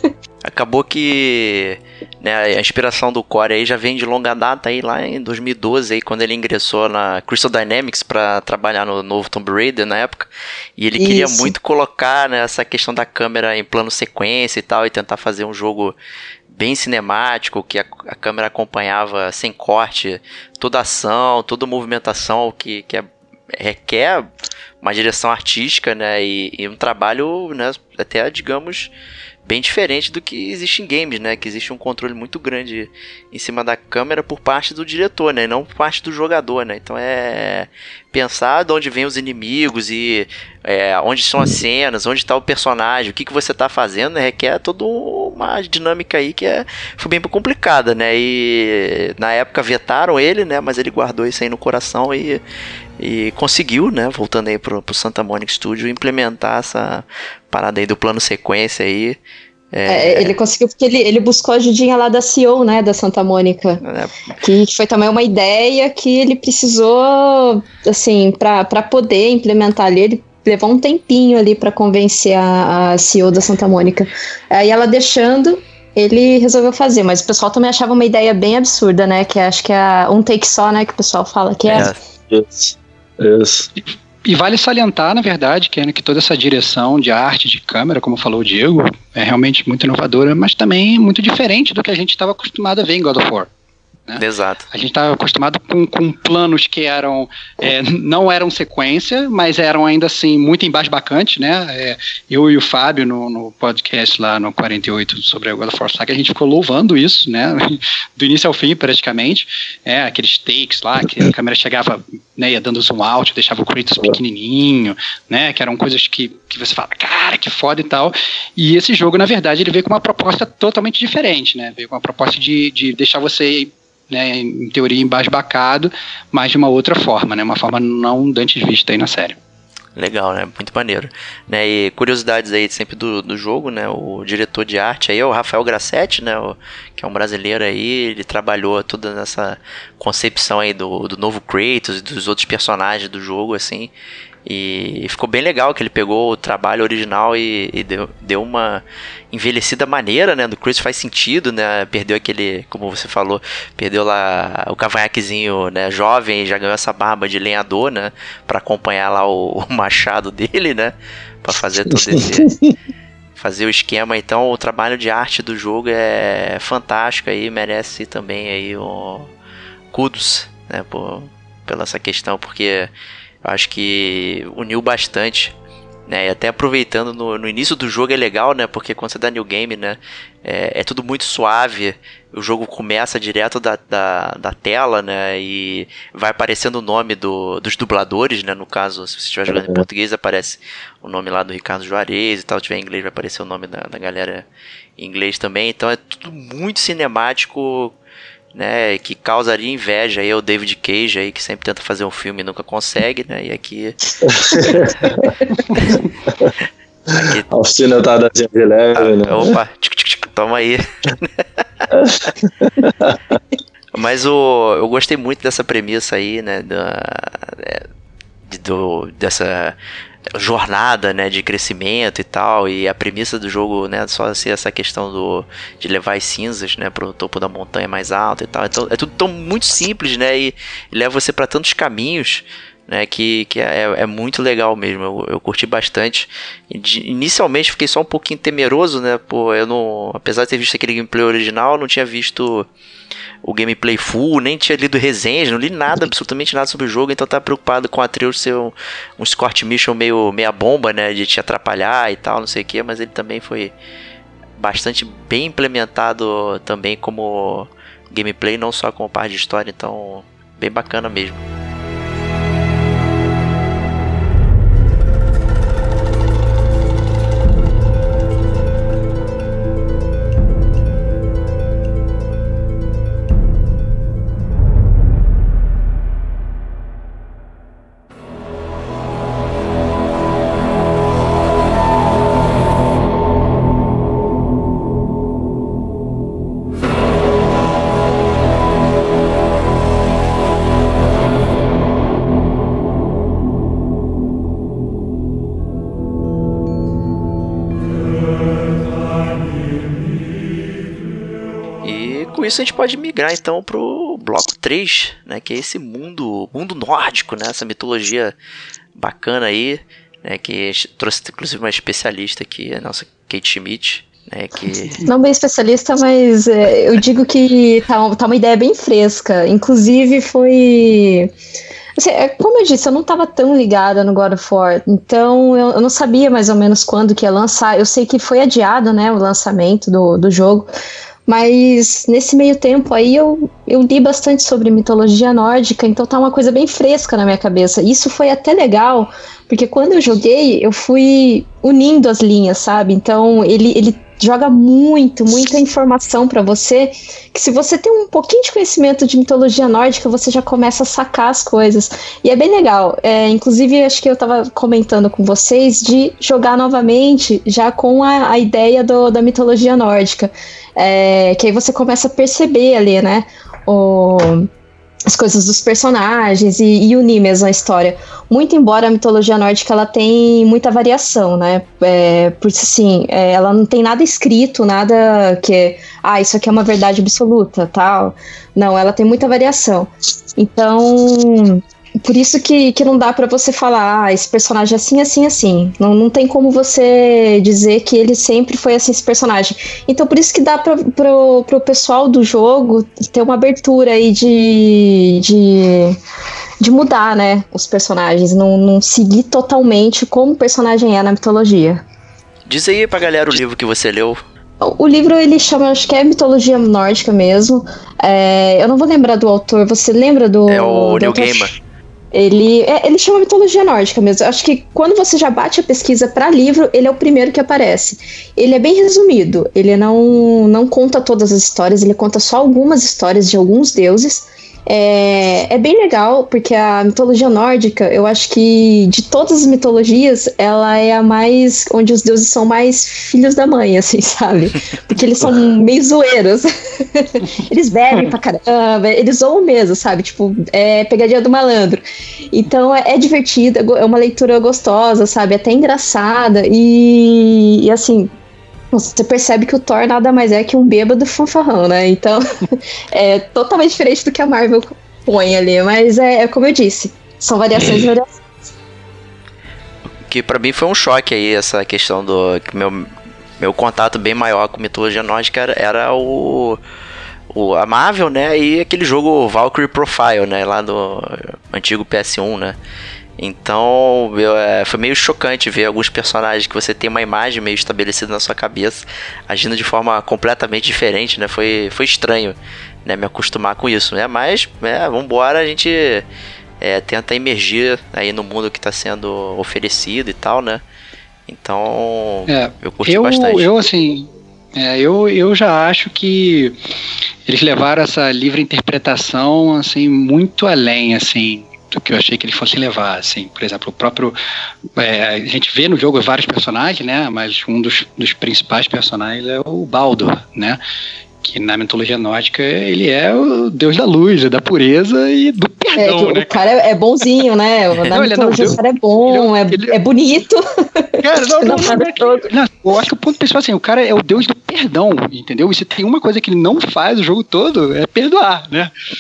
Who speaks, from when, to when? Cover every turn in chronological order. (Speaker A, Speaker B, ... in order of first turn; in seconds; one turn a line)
Speaker A: 0.4-15.9
Speaker B: 11.0-11.5
Speaker A: 16.5-24.3
Speaker A: 24.8-28.9
Speaker A: 29.4-52.4
Speaker A: 53.0-59.2
Speaker A: 59.7-60.4
Speaker B: 59.9-63.8
Speaker A: 63.8-64.1
Speaker B: 64.4-81.9
Speaker A: 81.7-82.0
Speaker C: 82.3-83.7
Speaker D: 84.2-93.5
Speaker D: 94.1-129.4
Speaker A: 94.2-94.7
Speaker A: 130.0-143.9
Speaker A: 144.5-162.5
Speaker C: 161.9-162.7
Speaker A: 163.4-169.3
Speaker A: 169.9-172.9
Speaker A: 173.4-175.5
Speaker A: 176.1-194.5
Speaker C: 189.5-189.8
Speaker A: 195.0-197.9
Speaker A: 198.6-204.0
Speaker C: 204.2-205.3
Speaker A: 204.6-204.9
Speaker A: 207.1-207.5
Speaker C: 207.5-209.5
Speaker A: 209.0-211.4
Speaker C: 211.9-213.4
Speaker A: 213.9-217.9
Speaker A: 218.5-219.8
Speaker A: 220.3-242.7
Speaker A: 243.4-253.7
Speaker A: 254.6-261.4
Speaker A: 301.8-308.3
Speaker A: 308.9-315.0
Speaker B: 315.1-321.3
Speaker B: 322.0-330.7
Speaker B: 331.3-364.5
Speaker B: 365.1-396.0
Speaker B: 396.6-401.8
Speaker A: 402.5-404.2
Speaker B: 404.6-411.5
Speaker A: 410.5-411.5
Speaker B: 412.1-441.8
Speaker B: 442.3-448.1
Speaker B: 448.7-458.2
Speaker A: 460.1-462.9
Speaker A: 463.4-466.6
Speaker A: 467.3-472.6
Speaker A: 473.2-486.1
Speaker A: 486.6-490.6
Speaker A: 491.3-493.6
Speaker D: 492.3-496.6
Speaker D: 497.3-504.2
Speaker D: 504.8-510.6
Speaker D: 511.2-516.5
Speaker B: 515.8-522.3
Speaker D: 517.9-519.8
Speaker D: 521.0-528.7